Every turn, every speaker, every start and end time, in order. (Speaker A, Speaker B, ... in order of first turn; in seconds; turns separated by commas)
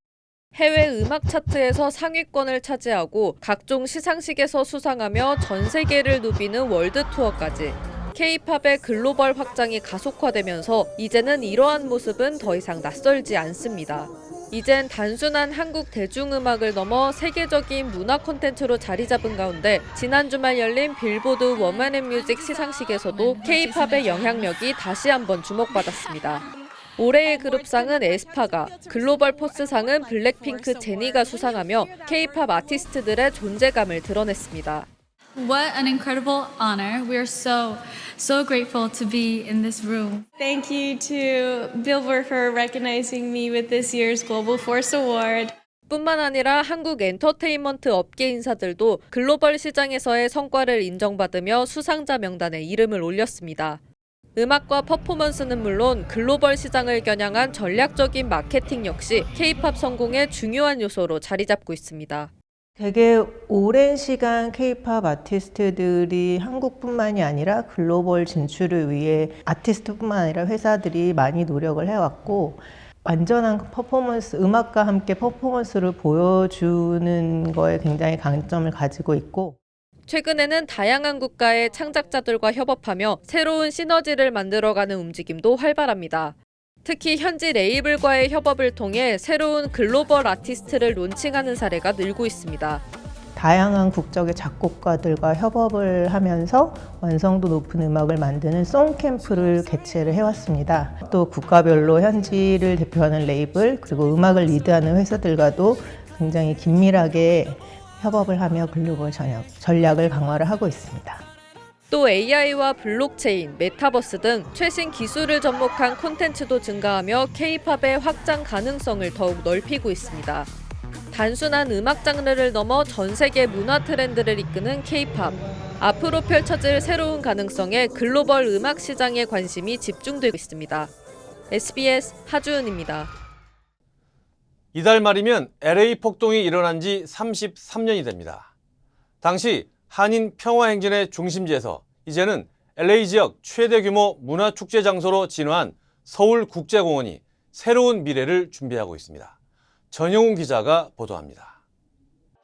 Speaker A: 0.5-26.4, Speaker B: 23.1-24.4, Speaker A: 27.0-34.9, Speaker B: 35.4-40.2, Speaker C: 40.4-45.5, Speaker A: 45.9-53.8, Speaker A: 54.4-62.3, Speaker D: 62.8-79.6, Speaker A: 80.1-92.8, Speaker D: 93.3-111.2, Speaker A: 111.9-120.5, Speaker A: 121.1-130.9, Speaker A: 131.5-133.1, Speaker E: 134.7-138.5, Speaker E: 139.2-149.3, Speaker E: 149.9-151.6